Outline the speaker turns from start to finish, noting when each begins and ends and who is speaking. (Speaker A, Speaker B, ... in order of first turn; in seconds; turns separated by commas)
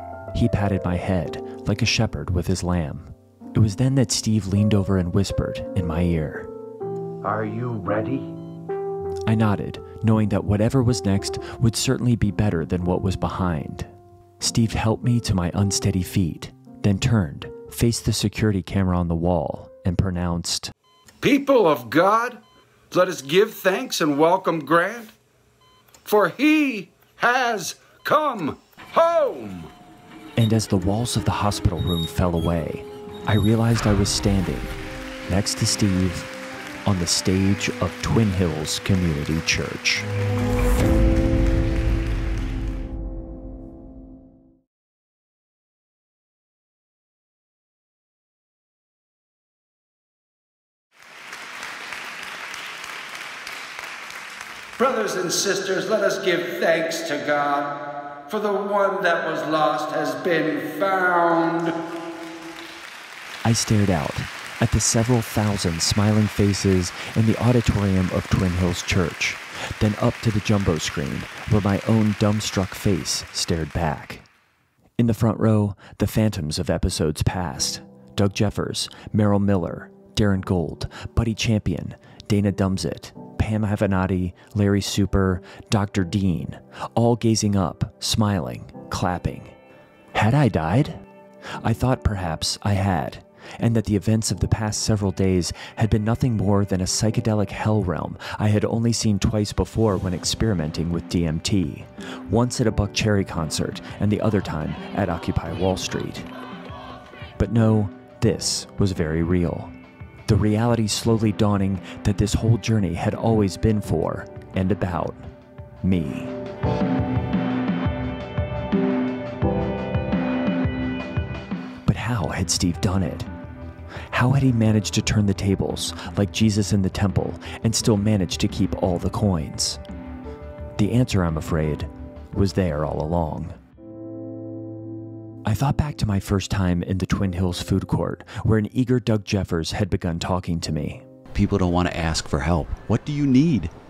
Speaker A: 0.3-6.5, Speaker B: 7.2-8.3, Speaker A: 9.3-20.7, Speaker B: 21.2-25.1, Speaker B: 26.0-29.7, Speaker A: 30.4-34.7, Speaker A: 35.3-36.3, Speaker A: 36.8-40.1, Speaker B: 54.8-57.8, Speaker B: 58.3-61.7, Speaker A: 63.4-74.2, Speaker A: 75.0-89.5, Speaker A: 90.1-91.0, Speaker A: 91.6-106.3, Speaker A: 107.4-109.7, Speaker A: 110.3-115.3, Speaker A: 115.8-116.3, Speaker A: 121.8-123.3, Speaker A: 124.1-129.8, Speaker A: 130.8-133.6, Speaker A: 135.4-141.0, Speaker C: 141.3-143.7